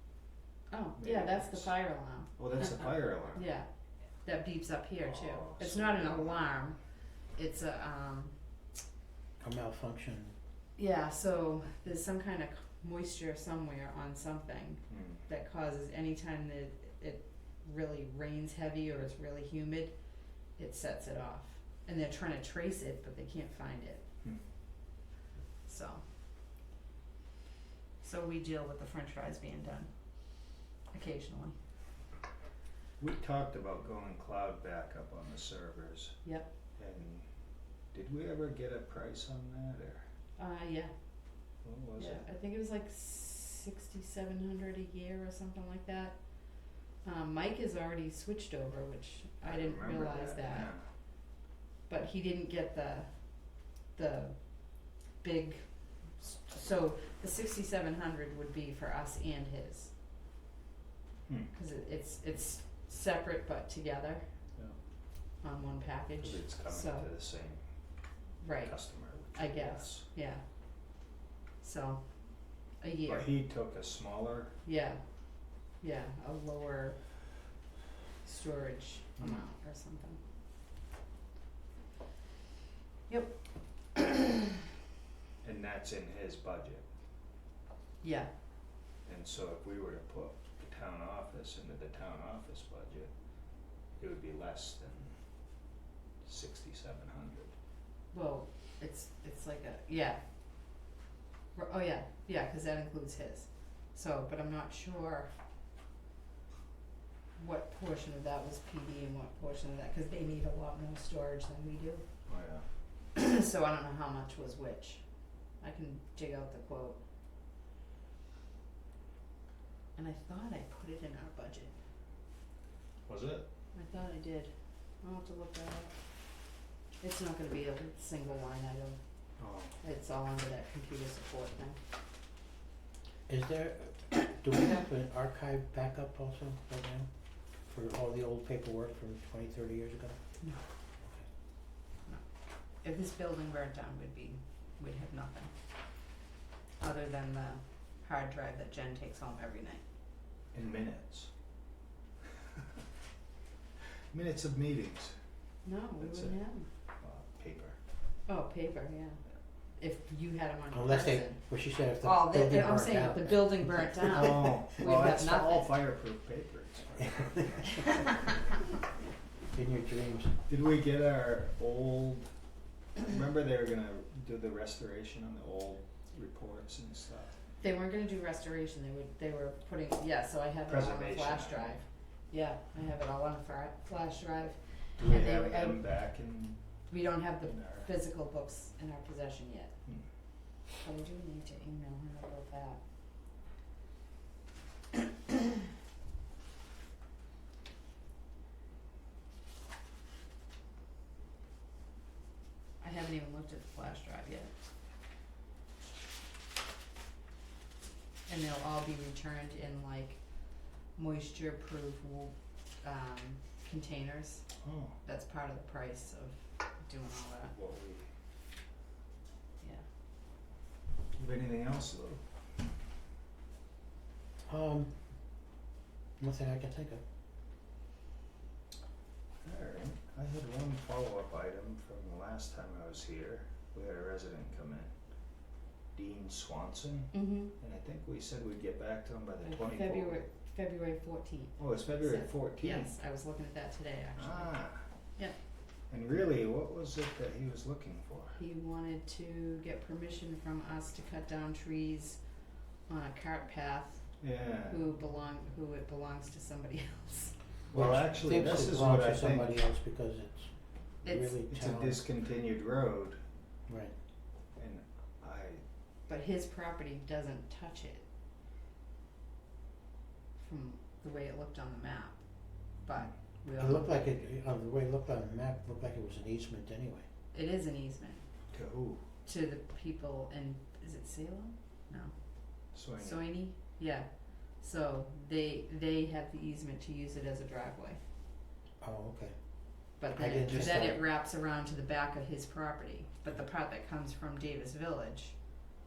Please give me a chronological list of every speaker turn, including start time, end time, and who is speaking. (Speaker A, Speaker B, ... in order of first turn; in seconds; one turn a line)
Speaker A: 0.7-3.7
Speaker B: 1.0-1.7
Speaker B: 2.4-3.4
Speaker A: 4.2-6.8
Speaker B: 5.0-6.5
Speaker A: 7.3-8.3
Speaker C: 9.4-10.3
Speaker A: 10.8-19.9
Speaker B: 14.9-15.2
Speaker A: 20.6-24.0
Speaker A: 25.7-26.0
Speaker A: 28.0-29.9
Speaker A: 30.9-31.5
Speaker B: 33.0-36.1
Speaker B: 36.8-37.2
Speaker B: 37.9-40.0
Speaker A: 40.4-40.9
Speaker B: 41.6-42.2
Speaker A: 42.0-46.1
Speaker A: 47.0-50.7
Speaker B: 49.4-50.8
Speaker A: 51.9-53.1
Speaker A: 53.9-54.4
Speaker A: 55.2-59.9
Speaker A: 61.5-64.2
Speaker A: 65.4-67.1
Speaker B: 66.2-67.6
Speaker A: 68.4-70.4
Speaker B: 68.6-70.1
Speaker A: 71.6-72.0
Speaker A: 72.8-73.3
Speaker B: 73.0-74.5
Speaker A: 74.6-75.0
Speaker A: 75.8-77.0
Speaker A: 78.2-80.2
Speaker B: 79.2-79.4
Speaker A: 83.1-83.3
Speaker A: 83.9-84.4
Speaker B: 85.4-86.8
Speaker A: 88.0-88.3
Speaker B: 89.0-93.1
Speaker B: 94.0-95.2
Speaker B: 96.2-97.5
Speaker A: 98.1-100.2
Speaker A: 101.5-105.3
Speaker A: 107.4-112.0
Speaker B: 112.3-112.7
Speaker A: 113.1-115.0
Speaker A: 115.6-117.0
Speaker A: 120.0-121.7
Speaker B: 123.1-123.5
Speaker A: 123.7-124.5
Speaker A: 125.0-125.9
Speaker A: 127.0-129.0
Speaker B: 129.4-129.7
Speaker A: 129.8-131.8
Speaker C: 133.3-137.1
Speaker C: 137.6-140.2
Speaker A: 142.8-145.5
Speaker A: 146.8-149.8
Speaker B: 150.5-151.3
Speaker B: 154.1-155.1
Speaker A: 155.6-156.7
Speaker B: 156.0-156.4
Speaker B: 157.0-157.8
Speaker A: 158.3-159.2
Speaker A: 159.8-161.4
Speaker C: 160.7-164.1
Speaker A: 162.0-165.7
Speaker B: 164.0-167.8
Speaker C: 164.7-165.2
Speaker C: 167.1-167.8
Speaker A: 167.7-168.0
Speaker C: 169.5-170.4
Speaker B: 170.5-172.3
Speaker B: 173.0-177.4
Speaker A: 177.6-185.8
Speaker B: 180.7-181.8
Speaker B: 185.0-186.6
Speaker A: 186.9-189.7
Speaker B: 187.4-187.9
Speaker A: 190.8-192.8
Speaker A: 202.8-204.5
Speaker A: 208.3-214.5
Speaker B: 214.6-215.0
Speaker A: 215.0-217.5
Speaker B: 217.5-218.1
Speaker B: 221.1-222.2
Speaker C: 224.4-224.9
Speaker C: 226.2-227.0
Speaker B: 229.4-234.9
Speaker B: 235.9-240.2
Speaker A: 237.1-237.5
Speaker A: 239.4-244.5
Speaker B: 241.6-242.9
Speaker B: 244.2-244.8
Speaker B: 245.9-248.4
Speaker A: 248.4-252.2
Speaker A: 252.9-254.1
Speaker B: 254.2-254.8
Speaker A: 254.7-257.3
Speaker B: 257.7-259.5
Speaker C: 257.7-262.0
Speaker A: 261.0-261.4
Speaker B: 261.5-263.2
Speaker C: 263.7-263.9
Speaker B: 264.6-265.6
Speaker A: 266.1-268.0
Speaker A: 270.4-272.2
Speaker A: 272.8-274.1
Speaker C: 273.6-277.1
Speaker A: 277.3-278.2
Speaker B: 278.5-279.0
Speaker A: 279.2-282.1
Speaker B: 282.7-283.3
Speaker A: 283.0-288.0
Speaker C: 288.8-289.3
Speaker A: 290.0-295.4
Speaker C: 290.1-291.0
Speaker B: 290.5-290.9